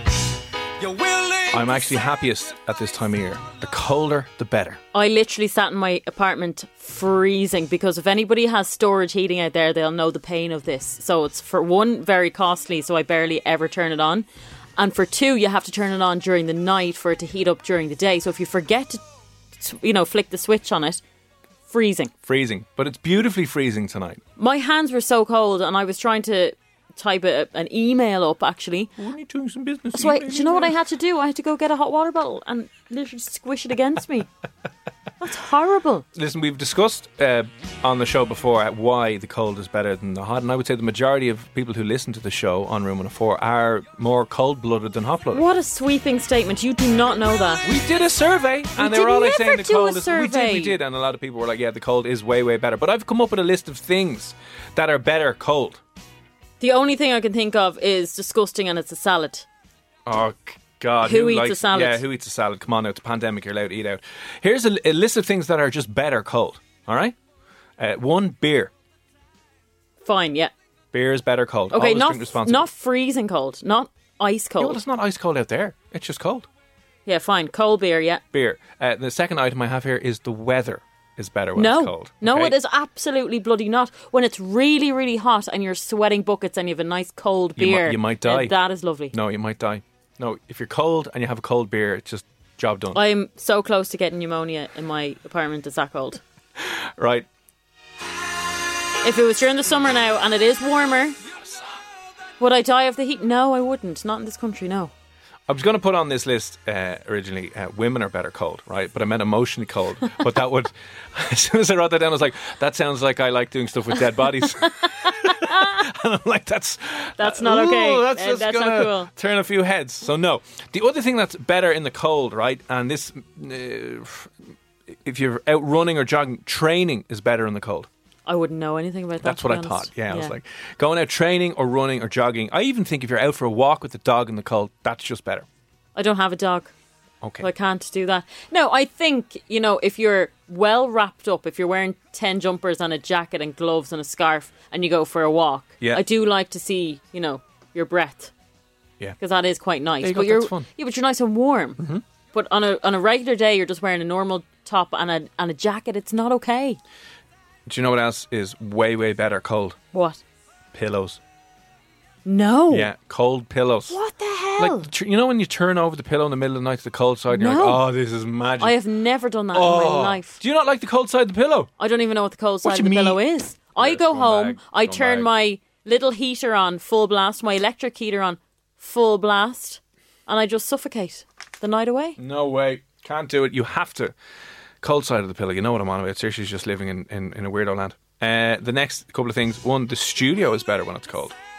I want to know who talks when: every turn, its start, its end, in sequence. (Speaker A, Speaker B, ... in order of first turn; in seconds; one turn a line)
Speaker A: 0.8-4.8
Speaker B: 4.9-19.0
Speaker B: 19.6-21.0
Speaker B: 21.7-22.1
Speaker A: 22.2-24.2
Speaker B: 24.4-28.9
Speaker A: 29.0-30.7
Speaker B: 29.9-34.3
Speaker B: 35.2-36.0
Speaker A: 36.1-45.4
Speaker B: 45.3-47.6
Speaker A: 47.6-55.8
Speaker B: 48.8-50.8
Speaker B: 56.6-59.5
Speaker A: 60.0-67.1
Speaker B: 61.0-62.0
Speaker A: 67.8-68.7
Speaker B: 70.0-70.5
Speaker A: 70.9-72.7
Speaker B: 71.7-74.8
Speaker A: 74.6-76.5
Speaker B: 77.0-78.2
Speaker A: 78.3-82.5
Speaker B: 81.5-89.1
Speaker A: 87.6-88.5
Speaker A: 89.1-93.0
Speaker B: 92.9-96.2
Speaker A: 96.6-97.2
Speaker B: 99.0-101.2
Speaker B: 102.4-104.9
Speaker A: 105.5-124.3
Speaker B: 114.8-115.8
Speaker B: 117.2-119.1
Speaker A: 125.0-127.9
Speaker B: 128.2-130.3
Speaker A: 129.2-135.4
Speaker B: 135.9-136.7
Speaker A: 137.2-137.5
Speaker B: 137.4-148.3
Speaker B: 149.2-151.8
Speaker A: 150.0-150.7
Speaker B: 152.3-156.8
Speaker A: 157.7-159.8
Speaker B: 159.9-160.2
Speaker A: 160.7-161.2
Speaker B: 162.2-162.9
Speaker A: 162.7-163.9
Speaker B: 163.9-164.9
Speaker A: 164.6-168.8
Speaker B: 167.3-167.8
Speaker B: 168.6-170.4
Speaker A: 169.5-171.7
Speaker B: 171.8-182.2
Speaker A: 172.6-175.3
Speaker A: 182.2-184.1
Speaker A: 184.8-191.3